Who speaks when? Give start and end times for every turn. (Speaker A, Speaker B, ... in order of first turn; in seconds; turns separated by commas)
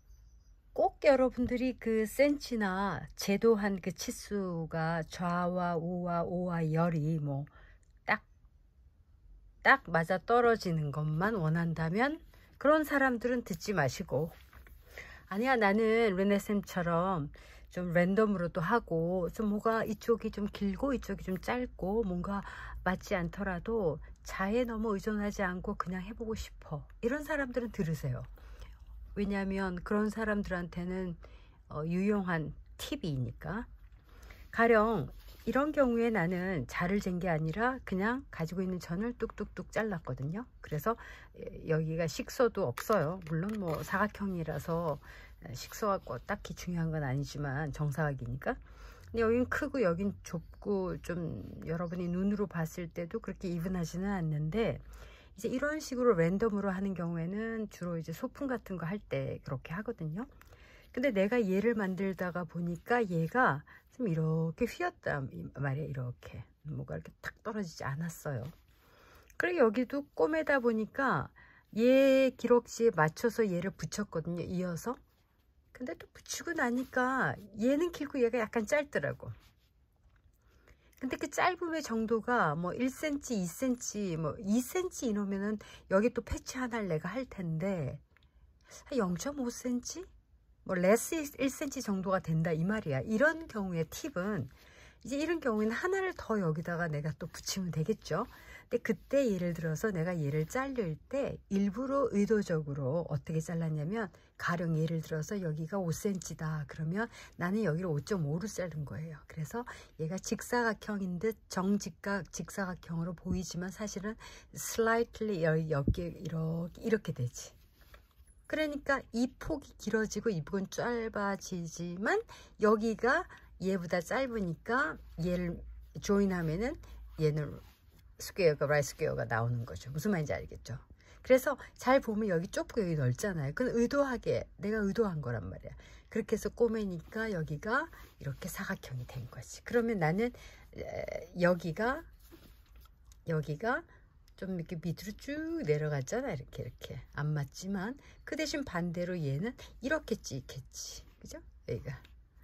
Speaker A: 0.7-7.5, Speaker A: 9.6-14.4, Speaker A: 15.3-28.3, Speaker A: 29.1-33.7, Speaker A: 34.5-48.6, Speaker A: 49.1-54.8, Speaker A: 55.4-60.3, Speaker A: 60.9-68.5, Speaker A: 69.4-75.0, Speaker A: 75.7-79.3, Speaker A: 81.0-88.0, Speaker A: 88.8-90.1, Speaker A: 90.7-94.5, Speaker A: 95.0-117.6, Speaker A: 118.5-127.6, Speaker A: 128.2-142.1, Speaker A: 143.3-143.9, Speaker A: 144.4-152.0